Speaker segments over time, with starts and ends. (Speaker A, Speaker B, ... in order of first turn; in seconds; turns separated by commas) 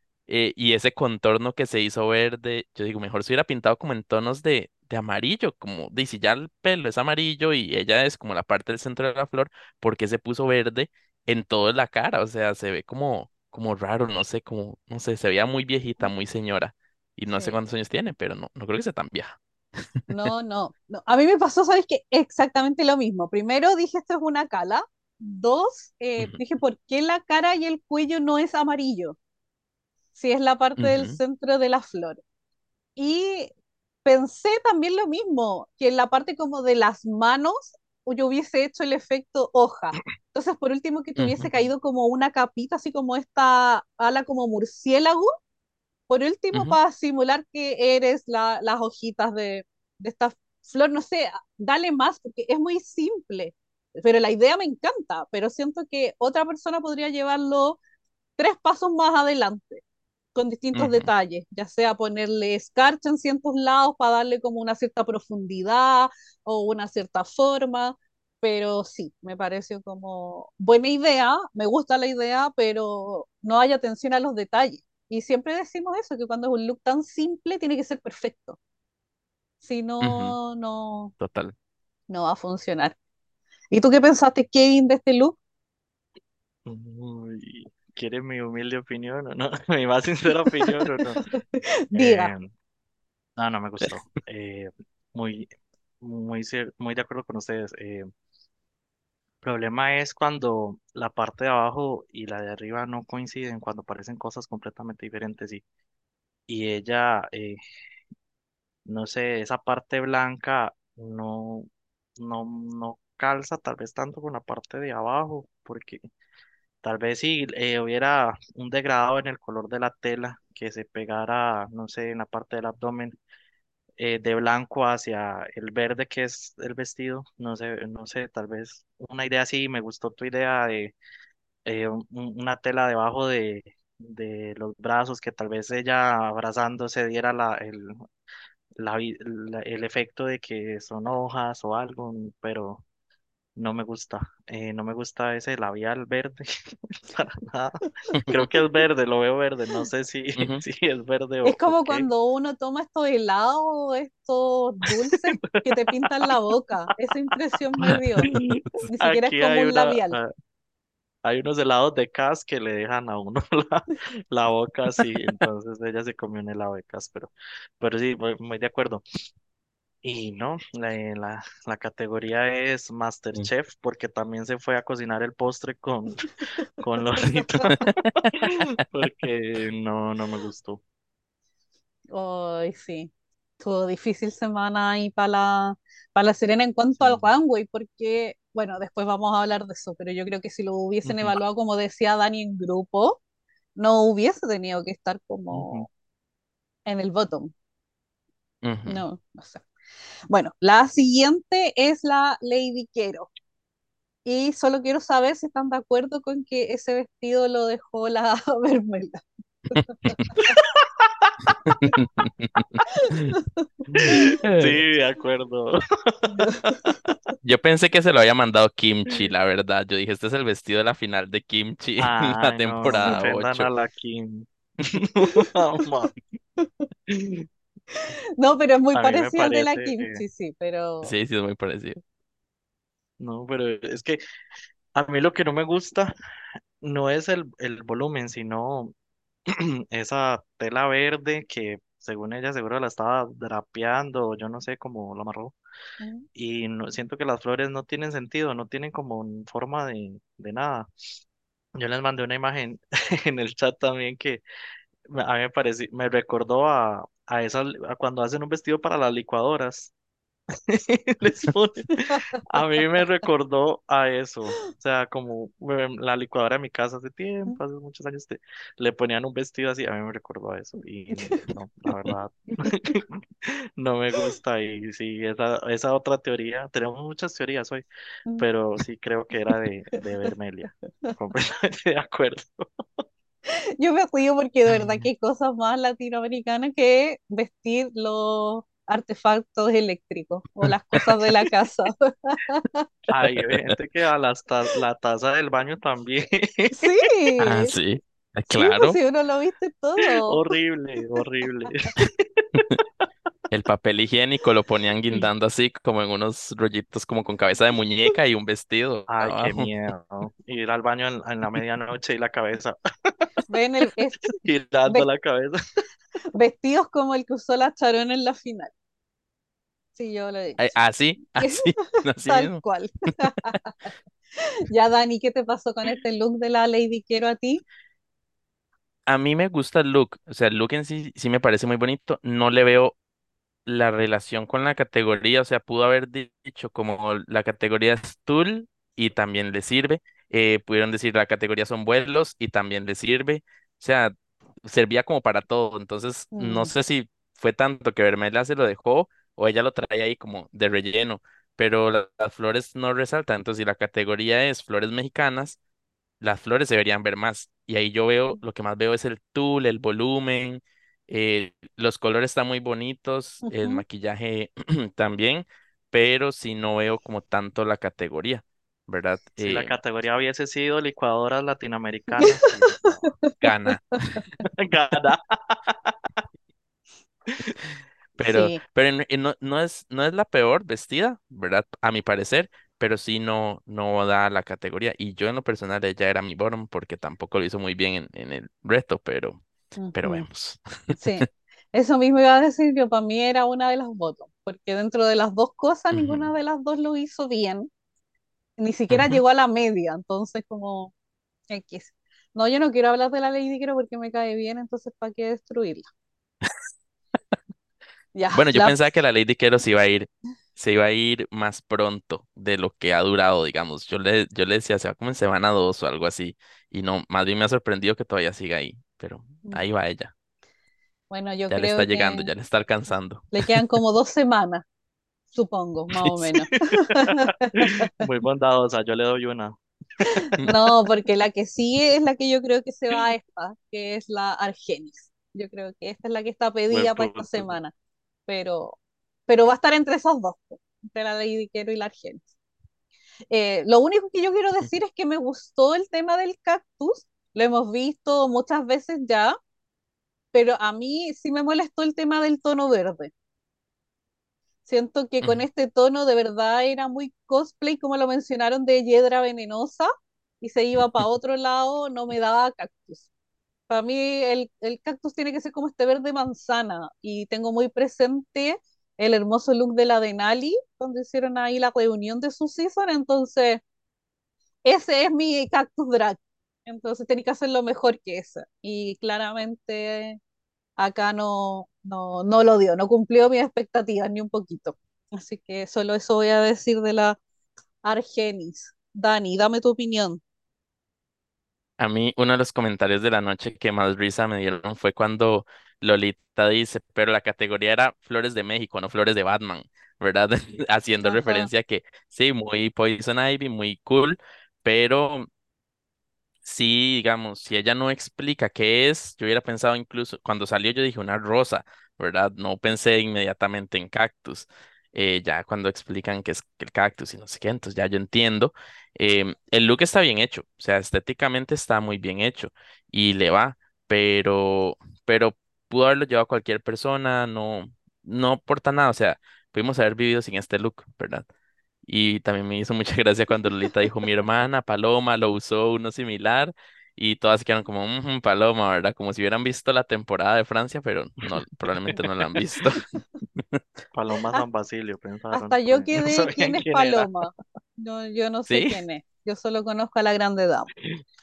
Speaker A: 0.3-20.3, Speaker B: 20.1-29.2, Speaker B: 30.1-32.2, Speaker A: 30.8-31.2, Speaker B: 33.0-33.5, Speaker B: 34.0-45.3, Speaker A: 41.2-41.6, Speaker B: 46.1-57.8, Speaker A: 46.5-46.8, Speaker B: 58.4-59.8, Speaker B: 60.4-78.6, Speaker A: 60.8-61.1, Speaker B: 79.6-81.1, Speaker A: 80.0-80.3, Speaker A: 81.2-81.5, Speaker B: 82.1-83.0, Speaker B: 83.7-85.4, Speaker C: 86.7-91.3, Speaker B: 90.5-92.3, Speaker C: 91.9-92.5, Speaker C: 93.4-95.5, Speaker C: 96.0-98.1, Speaker C: 99.4-105.6, Speaker C: 106.5-107.6, Speaker C: 108.9-116.0, Speaker C: 116.8-123.2, Speaker C: 124.0-130.9, Speaker C: 131.7-138.1, Speaker C: 138.8-142.8, Speaker C: 143.6-152.1, Speaker A: 150.4-150.6, Speaker B: 151.4-158.3, Speaker C: 155.4-156.1, Speaker A: 157.9-158.7, Speaker C: 158.2-160.3, Speaker B: 158.9-160.2, Speaker C: 161.2-169.0, Speaker C: 170.0-180.8, Speaker B: 177.3-177.9, Speaker B: 182.1-193.2, Speaker C: 187.0-187.3, Speaker B: 193.8-195.9, Speaker C: 195.5-195.9, Speaker B: 196.9-197.5, Speaker A: 198.6-199.1, Speaker B: 198.9-199.7, Speaker B: 200.3-203.3, Speaker B: 204.2-210.6, Speaker A: 209.7-210.3, Speaker C: 210.5-211.5, Speaker A: 211.7-213.3, Speaker B: 212.9-214.3, Speaker C: 213.9-217.2, Speaker A: 214.4-214.8, Speaker B: 216.4-216.8, Speaker A: 217.4-223.7, Speaker C: 222.0-226.2, Speaker B: 222.9-223.2, Speaker B: 225.2-225.5, Speaker B: 226.6-226.9, Speaker C: 227.1-227.5, Speaker B: 227.9-231.1, Speaker C: 228.9-230.2, Speaker A: 231.0-232.0, Speaker C: 233.2-234.2, Speaker C: 234.9-236.1, Speaker C: 236.8-238.9, Speaker C: 239.5-245.6, Speaker B: 246.0-246.3, Speaker C: 246.4-250.9, Speaker C: 251.8-254.4, Speaker C: 255.1-259.9, Speaker C: 260.7-277.8, Speaker B: 271.1-271.4, Speaker B: 272.1-273.0, Speaker C: 278.4-282.8, Speaker B: 283.5-292.9, Speaker A: 284.7-285.0, Speaker C: 293.1-297.3, Speaker A: 293.2-293.7, Speaker B: 296.7-297.7, Speaker A: 297.4-299.0, Speaker B: 298.5-300.4, Speaker C: 300.3-302.8, Speaker B: 301.1-301.9, Speaker A: 303.5-309.7, Speaker C: 309.1-313.4, Speaker B: 313.5-315.1, Speaker C: 314.3-315.7, Speaker B: 316.3-318.7, Speaker B: 319.9-320.6, Speaker A: 320.6-322.6, Speaker B: 321.4-323.9, Speaker B: 324.6-327.6, Speaker A: 329.1-332.9, Speaker A: 333.7-344.1, Speaker A: 344.6-355.6, Speaker B: 346.3-346.7, Speaker A: 356.2-369.7, Speaker B: 363.4-363.8, Speaker C: 369.4-373.2, Speaker A: 373.4-374.2, Speaker C: 374.5-375.9, Speaker A: 378.2-389.4, Speaker B: 378.2-378.6, Speaker B: 389.8-390.3, Speaker A: 389.9-391.2, Speaker B: 391.0-397.7, Speaker A: 395.9-396.3, Speaker B: 398.6-400.9, Speaker A: 398.9-399.2, Speaker B: 401.5-405.9, Speaker B: 408.1-408.8, Speaker A: 408.3-420.1, Speaker B: 421.1-422.3, Speaker A: 421.5-423.3, Speaker B: 423.3-424.6, Speaker B: 425.3-427.9, Speaker A: 426.0-426.2, Speaker C: 427.7-429.6, Speaker B: 430.1-437.7, Speaker C: 436.7-437.5, Speaker B: 438.3-442.3, Speaker B: 443.3-449.4, Speaker B: 450.3-453.1, Speaker B: 454.7-459.9, Speaker B: 460.4-463.1, Speaker B: 463.7-473.6, Speaker B: 474.7-480.2, Speaker B: 480.8-487.2, Speaker B: 487.8-490.2, Speaker A: 491.8-505.3, Speaker B: 501.0-501.5, Speaker A: 506.4-531.3, Speaker A: 531.9-543.6, Speaker C: 542.0-542.4, Speaker C: 543.9-547.1, Speaker B: 545.3-550.7, Speaker A: 548.5-548.8